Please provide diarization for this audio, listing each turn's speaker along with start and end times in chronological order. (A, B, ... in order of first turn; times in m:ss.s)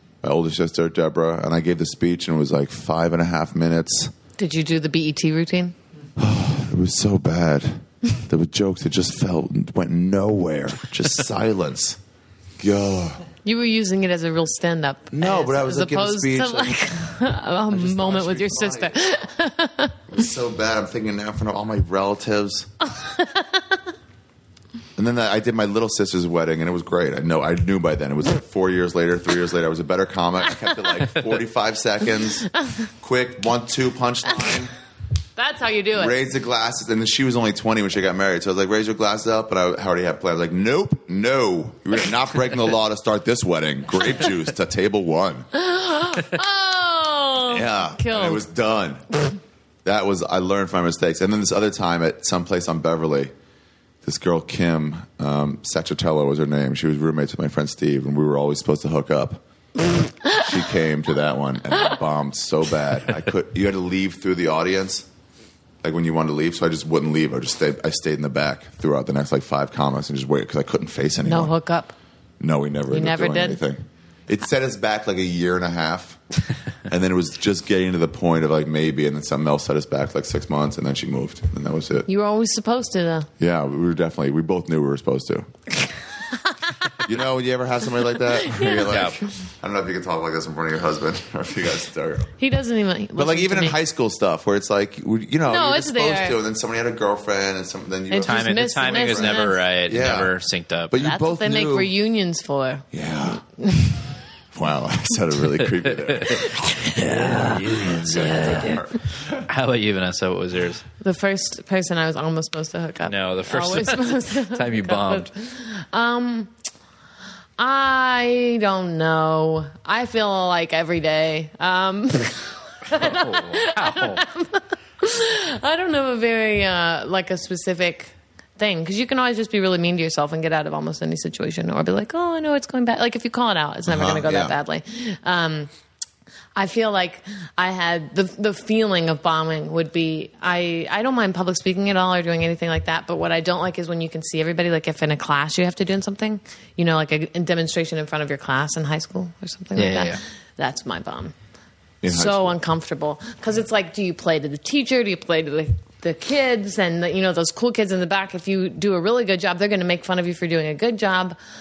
0:00.2-0:04.1 A
0:04.4-0:05.7 B
0:06.2-0:12.0 A
0:12.6-0:13.2 A
0:13.4-0:20.0 B
0:15.1-0:16.8 A
0:17.7-0:19.0 A
0:20.1-0:22.7 A
0:22.9-0:23.8 B
0:25.0-0:32.5 A
0:33.0-0:34.7 A
0:35.4-0:36.2 B
0:35.9-0:45.5 A
0:45.5-0:48.4 B
0:47.4-0:49.0 A
0:49.8-0:53.3 A
0:54.0-0:59.4 A
1:00.2-1:05.1 A
1:05.8-1:11.5 A
1:11.2-1:11.9 B
1:12.4-1:16.2 A
1:12.9-1:13.6 B
1:16.9-1:22.1 A
1:22.1-1:23.3 B
1:23.4-1:25.5 A
1:26.5-1:27.0 B
1:27.0-1:32.3 A
1:28.2-1:29.3 B
1:28.9-1:29.2 C
1:32.4-1:33.8 B
1:33.2-1:40.3 A
1:35.5-1:36.4 B
1:38.1-1:39.6 B
1:38.2-1:40.9 C
1:40.9-1:41.9 A
1:41.0-1:42.8 B
1:42.9-1:43.4 A
1:43.5-1:44.1 B
1:44.5-1:49.4 A
1:45.8-1:48.8 C
1:48.3-1:48.7 B
1:49.4-1:50.8 C
1:51.0-1:56.5 B
1:53.0-1:55.3 C
1:57.6-2:15.7 B
2:02.9-2:04.2 C
2:13.9-2:14.6 A
2:16.5-2:31.3 B
2:29.8-2:30.2 C
2:32.0-2:32.6 A
2:32.1-2:41.4 B